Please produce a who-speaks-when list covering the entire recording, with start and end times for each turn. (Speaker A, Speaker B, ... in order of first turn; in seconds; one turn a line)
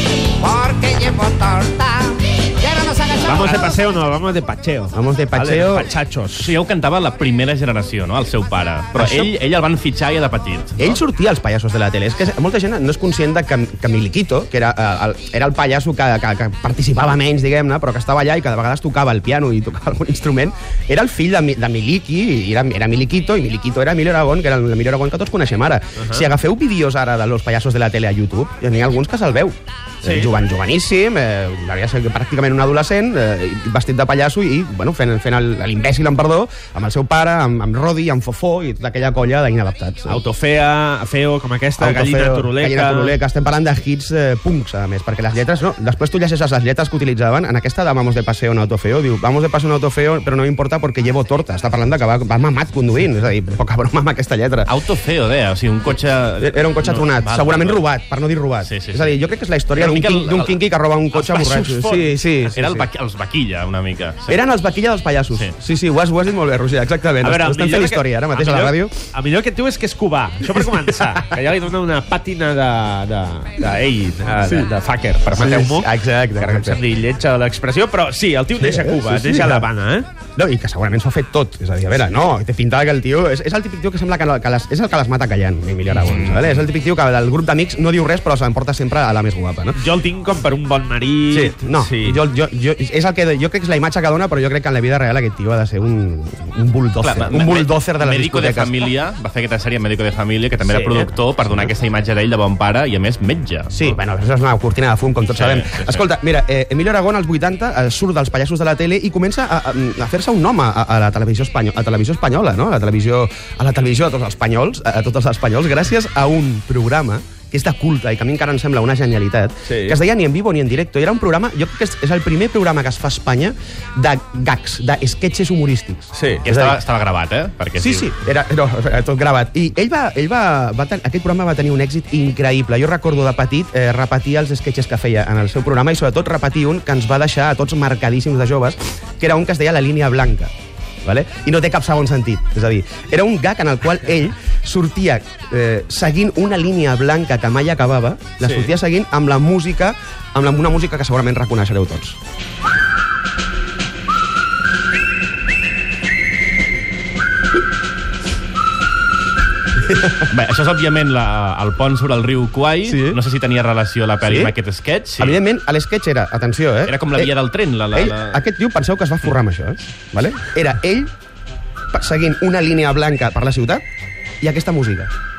Speaker A: 0.4-3.7
Speaker B: 3.2-6.6
Speaker C: 4.9-5.9
Speaker D: 6.4-11.0
Speaker C: 9.0-9.3
Speaker C: 10.8-40.2
Speaker B: 26.0-26.3
Speaker B: 30.0-30.3
Speaker B: 40.1-43.2
Speaker C: 41.8-54.7
Speaker D: 54.7-57.9
Speaker C: 56.4-62.9
Speaker D: 58.6-59.1
Speaker D: 59.8-60.6
Speaker B: 61.3-62.2
Speaker D: 62.5-64.4
Speaker C: 64.3-69.0
Speaker B: 67.2-80.1
Speaker C: 70.6-71.2
Speaker C: 74.4-74.7
Speaker C: 75.3-76.8
Speaker C: 78.6-79.7
Speaker C: 80.4-89.8
Speaker B: 89.7-92.2
Speaker C: 91.3-98.7
Speaker D: 97.0-104.0
Speaker C: 100.7-101.7
Speaker C: 103.7-126.8
Speaker D: 105.3-106.0
Speaker B: 119.7-120.0
Speaker B: 126.1-126.5
Speaker D: 126.5-128.1
Speaker C: 127.8-140.5
Speaker C: 141.1-152.2
Speaker B: 148.4-148.7
Speaker D: 160.3-165.4
Speaker C: 162.9-163.2
Speaker C: 164.2-164.6
Speaker C: 165.2-167.3
Speaker D: 166.9-168.4
Speaker C: 167.9-171.1
Speaker C: 171.9-173.8
Speaker C: 174.4-175.1